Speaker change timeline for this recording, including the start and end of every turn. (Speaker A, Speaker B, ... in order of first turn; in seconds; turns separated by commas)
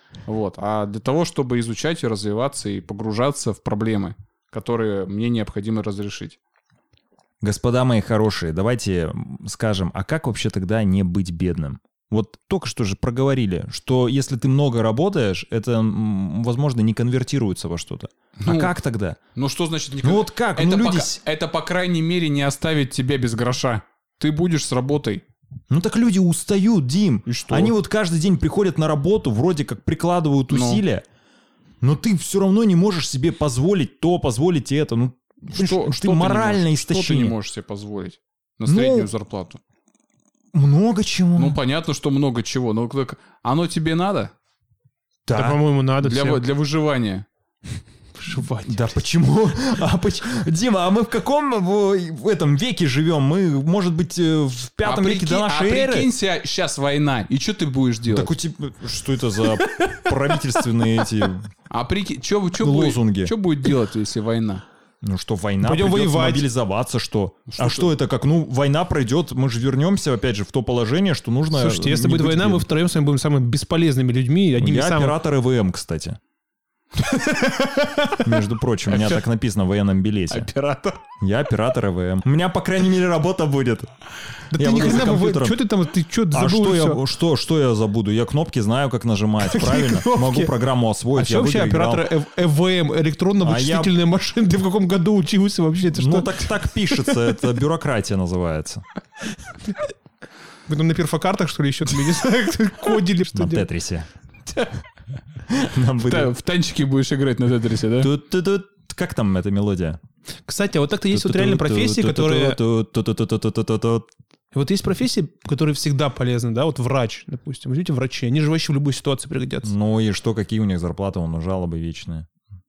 Speaker A: 0.2-6.4, Speaker B: 7.4-19.2, Speaker A: 18.4-18.7, Speaker A: 19.3-25.2, Speaker B: 20.0-21.2, Speaker B: 25.7-31.0, Speaker A: 27.2-27.7, Speaker A: 30.5-30.8, Speaker B: 31.8-37.3, Speaker A: 35.5-39.6, Speaker B: 38.6-39.1, Speaker B: 40.5-41.6, Speaker A: 41.4-44.3, Speaker B: 45.2-45.6, Speaker C: 45.3-46.4, Speaker A: 46.0-47.2, Speaker C: 48.1-48.8, Speaker B: 48.4-56.1, Speaker A: 54.8-58.4, Speaker B: 58.1-61.5, Speaker A: 61.7-64.6, Speaker B: 62.6-63.3, Speaker B: 65.0-72.7, Speaker C: 65.6-66.4, Speaker A: 67.5-67.9, Speaker C: 71.5-75.1, Speaker B: 74.6-76.2, Speaker C: 77.0-78.3, Speaker B: 78.2-80.5, Speaker A: 78.9-79.2, Speaker A: 80.3-81.0, Speaker B: 81.2-83.9, Speaker C: 84.5-87.0, Speaker B: 84.5-85.6, Speaker B: 86.3-92.1, Speaker C: 89.4-90.5, Speaker C: 91.1-97.3, Speaker B: 93.4-93.9, Speaker B: 95.9-98.8, Speaker C: 100.7-103.7, Speaker B: 103.3-104.1, Speaker B: 105.5-106.3, Speaker A: 106.0-108.1, Speaker B: 108.0-110.0, Speaker C: 110.5-112.6, Speaker B: 111.1-114.1, Speaker C: 114.5-119.7, Speaker B: 119.6-122.3